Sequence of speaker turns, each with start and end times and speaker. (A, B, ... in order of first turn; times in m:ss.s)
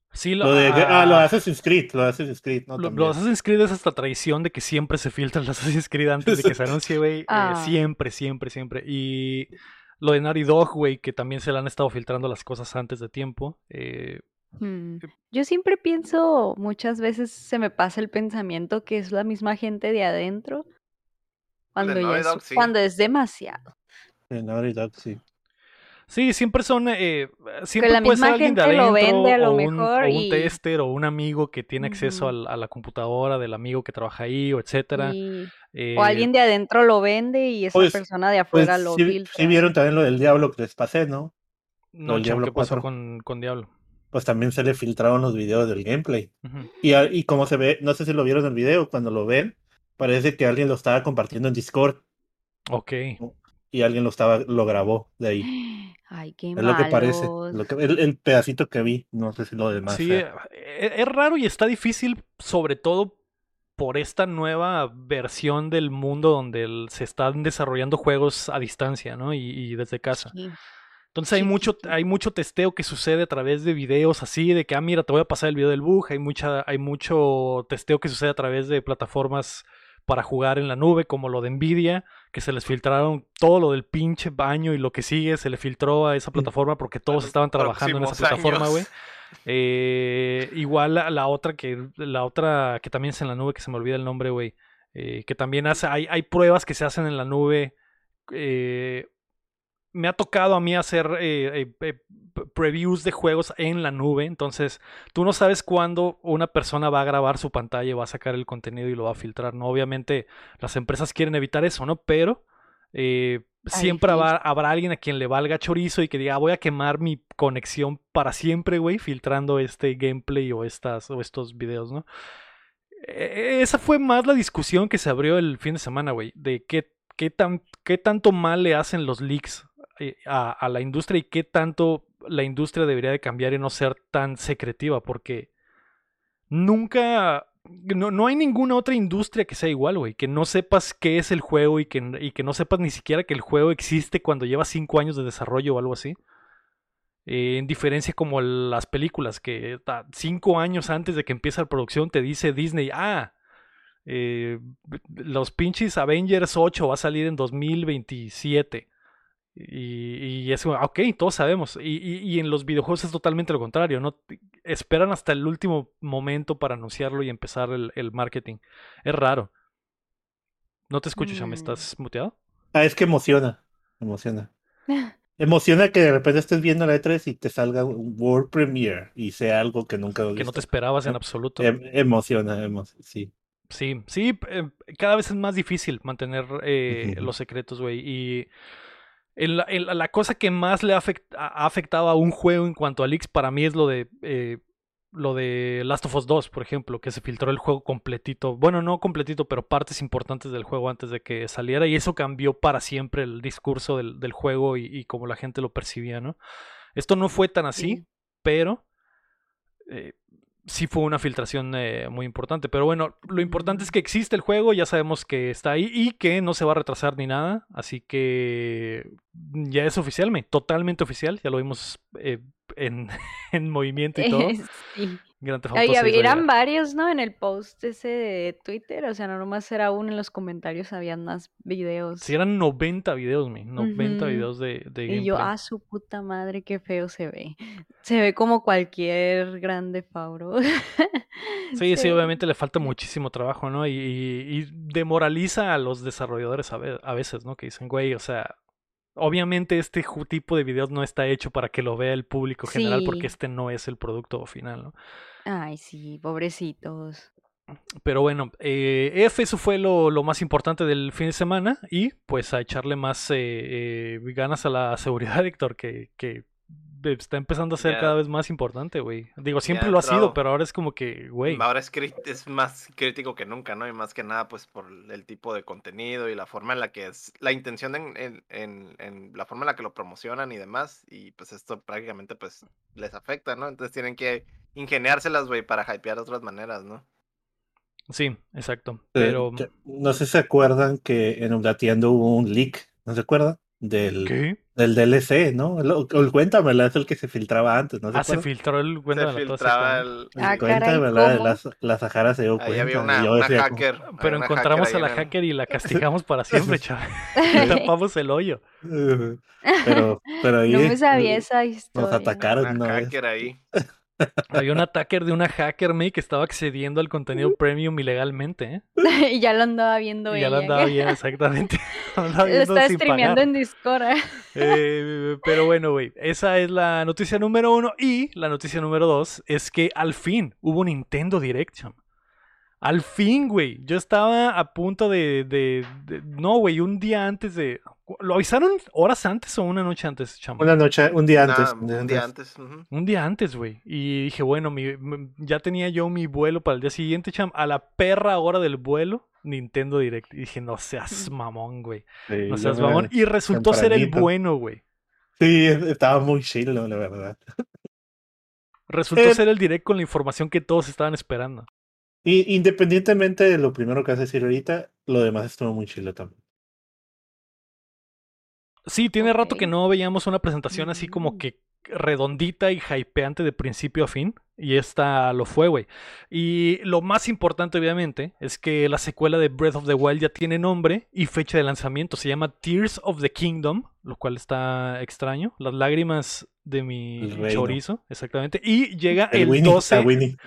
0:00.1-0:01.3 A
0:00.4-0:03.2 B
0:02.8-0:14.2 A
0:06.2-0:06.7 B
0:07.3-0:07.8 C
0:14.6-0:20.6 C
0:21.7-0:23.6 C
0:21.8-0:22.7 D
0:24.3-0:25.2 B
0:26.1-0:35.2 A
0:27.8-0:30.5 C
0:31.8-0:32.3 C
0:34.9-0:39.7 C
0:35.7-0:36.3 A
0:37.7-0:38.0 B
0:38.5-0:41.3 B
0:41.9-0:43.7 A
0:42.1-0:42.8 B
0:44.1-0:52.0 B
0:46.4-0:46.7 A
0:52.7-0:53.2 A
0:53.2-0:55.5 B
0:55.4-0:57.6 C
0:56.6-1:00.2 B
0:59.9-1:03.1 A
1:03.8-1:10.3 A
1:10.1-1:10.6 C
1:11.1-1:28.9 A
1:11.3-1:12.0 C
1:27.1-1:28.8 D
1:29.4-1:37.7 A
1:38.3-1:39.1 A
1:39.9-1:52.4 A
1:52.9-2:02.0 A
1:53.7-1:54.3 C
2:03.0-2:15.5 A
2:16.5-2:26.2 A
2:27.2-2:33.3 A
2:34.0-2:38.8 A
2:39.6-2:49.5 A
2:50.9-2:52.3 A
2:51.2-2:51.8 C
2:52.7-2:54.5 B
2:55.4-3:03.3 B
3:00.4-3:01.7 A
3:03.7-3:08.5 A
3:06.9-3:07.3 B
3:09.4-3:14.6 A
3:15.1-3:26.4 A
3:27.0-3:28.8 A
3:27.8-3:28.0 C
3:29.9-3:44.6 A
3:33.3-3:33.9 C
3:44.2-3:45.2 C
3:45.4-3:46.5 A
3:45.7-3:52.3 C
3:52.2-3:55.5 A
3:53.8-3:54.5 C
3:55.1-4:02.9 C
4:01.7-4:08.5 A
4:09.2-4:14.9 A
4:12.6-4:13.3 C
4:15.4-4:17.3 C
4:18.0-4:31.6 A
4:27.8-4:28.1 D
4:29.7-4:30.4 D
4:31.4-4:47.0 D
4:48.1-4:49.7 A
4:49.1-4:58.4 B
4:54.2-4:54.6 A
4:58.1-5:00.1 A
4:59.1-5:00.7 D
5:00.4-5:03.8 B
5:00.4-5:01.6 C
5:02.6-5:05.3 D
5:04.1-5:08.6 A
5:06.5-5:06.8 B
5:07.4-5:07.9 C
5:07.5-5:07.8 B
5:08.8-5:13.1 B
5:09.7-5:12.4 C
5:12.6-5:13.6 D
5:14.2-5:14.8 B
5:14.5-5:18.8 A
5:19.0-5:21.1 C
5:20.3-5:23.5 A
5:22.4-5:24.8 C
5:24.5-5:32.0 A
5:32.8-5:40.7 A
5:40.6-5:42.2 B
5:41.4-5:42.9 D
5:42.9-5:54.8 A
5:52.3-5:54.3 B
5:55.4-5:57.4 B
5:58.9-6:01.7 A
5:59.2-5:59.4 B
6:02.2-6:06.3 B
6:08.9-6:30.1 A
6:09.2-6:09.7 C
6:10.7-6:11.4 C
6:27.2-6:27.8 B
6:29.3-6:30.4 B